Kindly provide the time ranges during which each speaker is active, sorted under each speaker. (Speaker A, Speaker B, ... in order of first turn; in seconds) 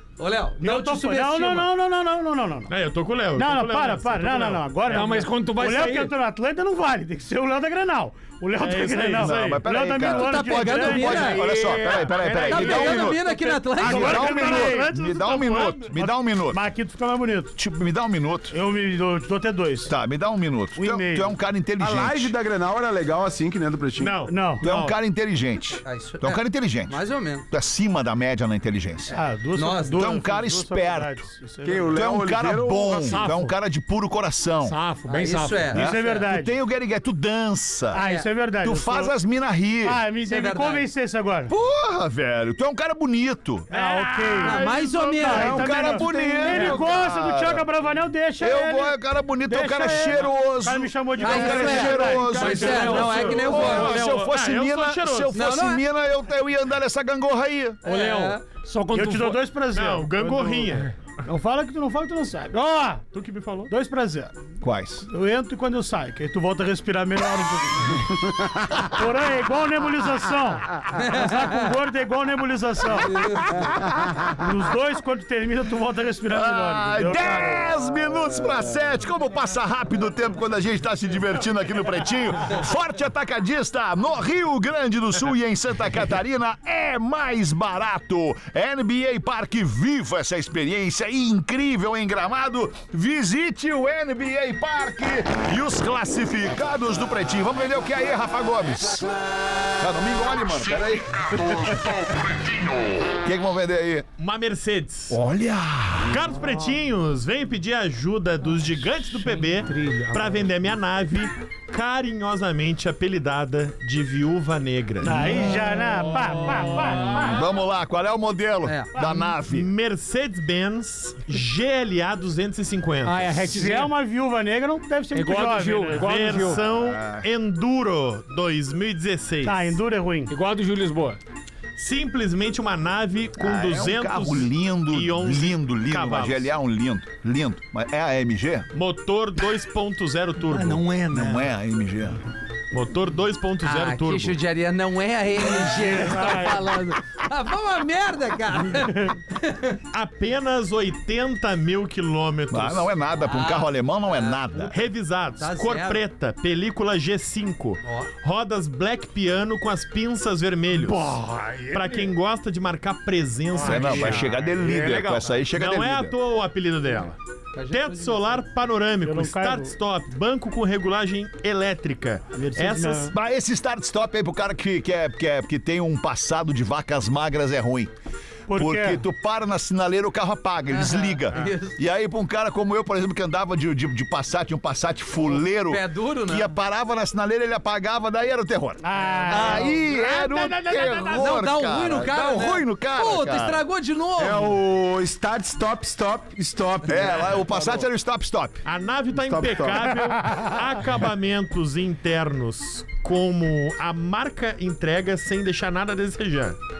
Speaker A: 0.2-1.7, 10.0-11.4, 12.4-14.7, 25.8-27.4, 29.6-30.1, 35.0-36.2, 38.0-38.3, 40.2-40.9, 44.4-45.9, 51.2-54.2, 55.3-55.8, 57.8-58.4, 71.0-71.6, 73.0-73.7, 118.6-118.9, 143.6-149.8, 153.3-154.4, 155.4-156.0, 157.8-158.1, 167.6-168.4, 180.7-181.8, 185.4-186.5, 191.1-194.6
Speaker B: 0.6-2.7, 3.4-11.6, 12.3-17.5, 18.5-19.9, 20.8-21.3, 24.3-24.6, 29.1-32.2, 35.7-36.5, 37.9-39.1, 39.8-41.5, 43.7-44.6, 45.2-53.9, 58.9-60.7, 61.3-63.0, 63.7-64.3, 65.0-68.2, 68.8-77.7, 115.0-117.3, 123.5-126.5, 129.4-130.3, 146.1-146.4, 148.8-149.1, 169.0-169.7, 172.3-173.1, 178.5-179.0, 188.8-189.7
Speaker C: 2.7-5.0, 8.6-9.7, 24.0-24.9, 43.7-45.9, 52.3-55.4, 59.7-60.9, 63.1-63.7, 104.2-105.2, 106.0-115.3, 119.5-123.3, 125.9-129.8, 131.8-136.5, 138.7-140.8, 142.7-144.4, 149.9-152.9, 154.7-161.1, 161.7-167.2, 167.7-173.1, 189.3-191.4, 198.6-206.6
Speaker D: 4.8-6.1, 11.1-13.2, 14.1-14.6, 33.0-33.5, 34.6-35.9, 43.8-44.4, 46.5-46.9, 52.7-53.4, 57.8-59.5, 109.1-110.4, 116.1-117.0, 123.0-124.0, 125.1-126.6, 130.3-131.2, 140.5-141.5, 146.1-146.6, 160.7-162.1, 163.5-164.7
Speaker E: 9.1-13.2, 13.8-16.6, 17.6-18.5, 19.9-22.3, 24.6-27.0, 27.5-29.1, 29.9-31.3, 31.9-34.8, 35.7-38.0, 38.6-40.0, 41.5-43.7, 45.2-47.6, 48.4-57.8, 64.6-65.0, 76.3-104.1, 105.1-106.2, 117.0-119.7, 126.6-127.3, 133.4-138.7, 141.1-142.2, 152.5-154.8, 163.6-166.1, 173.1-177.9, 178.5-193.6, 196.9-198.6
Speaker F: 21.8-24.2, 31.6-33.2, 52.6-53.1, 194.2-197.9, 199.2-200.0